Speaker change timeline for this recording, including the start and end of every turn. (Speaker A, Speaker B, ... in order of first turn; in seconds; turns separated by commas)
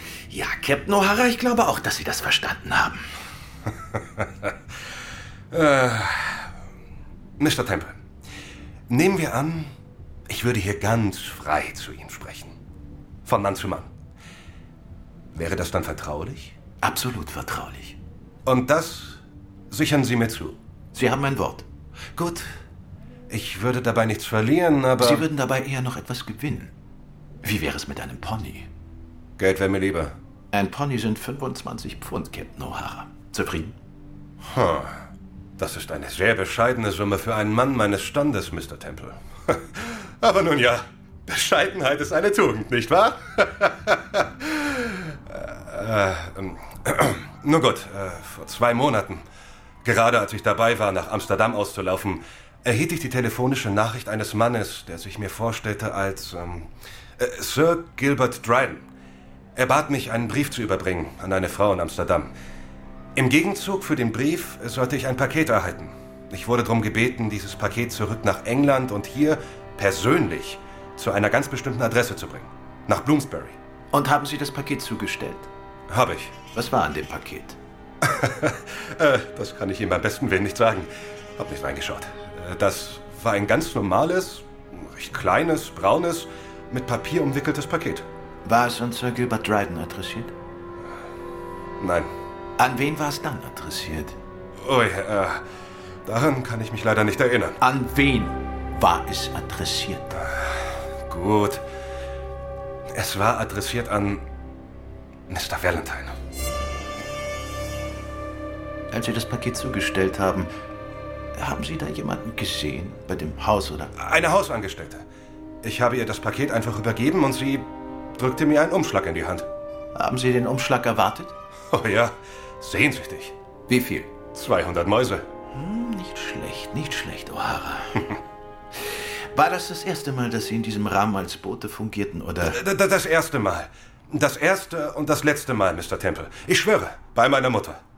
Speaker A: 0.3-3.0, Speaker B: 4.2-4.5, Speaker B: 5.5-6.5, Speaker B: 7.4-8.0, Speaker B: 8.9-9.7, Speaker B: 10.3-12.5, Speaker B: 13.2-13.9, Speaker B: 15.3-16.5, Speaker A: 16.8-18.0, Speaker B: 18.4-19.2, Speaker B: 19.7-20.6, Speaker A: 20.9-22.5, Speaker B: 23.3-25.2, Speaker A: 25.0-26.7, Speaker A: 27.4-28.7, Speaker B: 29.4-30.2, Speaker A: 30.5-33.8, Speaker B: 34.4-35.0, Speaker B: 35.6-49.2, Speaker B: 49.8-58.9, Speaker B: 59.5-62.3, Speaker B: 63.1-73.5, Speaker A: 73.9-75.5, Speaker B: 75.9-76.3, Speaker A: 76.5-77.6, Speaker B: 78.0-88.0, Speaker A: 88.4-90.3, Speaker B: 91.8-92.1, Speaker A: 92.6-94.2, Speaker B: 94.6-95.4, Speaker B: 96.0-97.6, Speaker A: 97.6-100.1, Speaker B: 100.2-101.6, Speaker B: 102.9-104.2, Speaker B: 105.3-106.2, Speaker A: 108.9-110.5, Speaker A: 111.3-113.9, Speaker B: 114.0-115.0, Speaker B: 115.6-119.5, Speaker A: 119.9-121.3, Speaker B: 121.7-123.3, Speaker A: 123.7-124.2, Speaker B: 124.3-125.2, Speaker A: 125.5-128.1, Speaker A: 128.8-132.6, Speaker B: 132.5-137.8